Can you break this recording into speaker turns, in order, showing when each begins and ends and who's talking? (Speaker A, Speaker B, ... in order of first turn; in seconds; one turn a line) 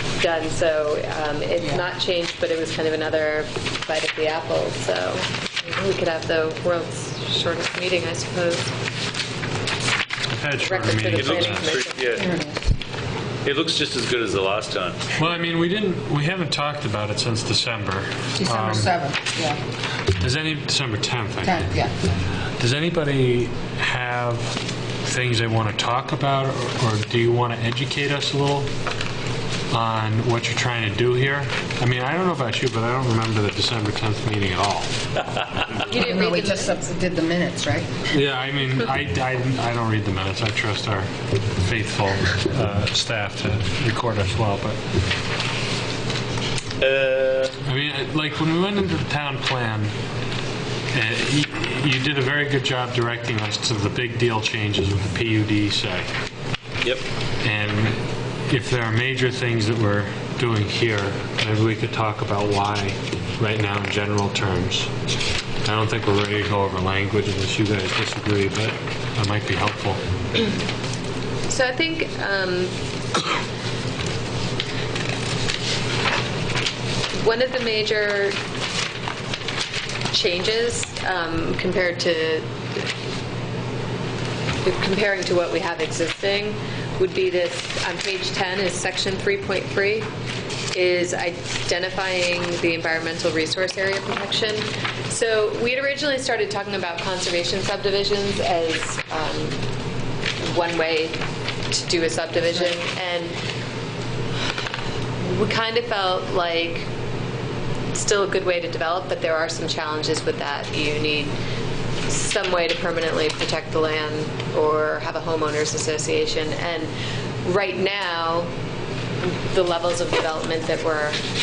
Speaker A: 0.2-8.7
Speaker B: 1.6-1.9
Speaker C: 10.3-11.8
Speaker A: 10.6-12.2
Speaker D: 11.2-12.2
Speaker B: 12.1-12.7
Speaker D: 13.4-15.0
Speaker C: 15.2-19.0
Speaker B: 18.3-19.6
Speaker C: 20.2-21.8
Speaker B: 21.4-22.1
Speaker C: 22.4-28.7
Speaker C: 29.7-34.9
Speaker A: 35.8-36.7
Speaker B: 35.9-37.9
Speaker C: 38.1-44.9
Speaker D: 46.8-47.5
Speaker C: 47.6-49.9
Speaker C: 50.9-56.1
Speaker C: 57.4-64.9
Speaker C: 65.6-70.0
Speaker A: 71.5-72.7
Speaker A: 77.1-78.3
Speaker A: 80.1-82.5
Speaker A: 84.6-90.1
Speaker A: 90.7-99.6
Speaker A: 100.4-101.2
Speaker A: 101.7-103.3
Speaker A: 105.2-106.9
Speaker A: 107.9-111.3
Speaker A: 112.1-116.9
Speaker A: 117.4-118.5
Speaker A: 119.2-121.2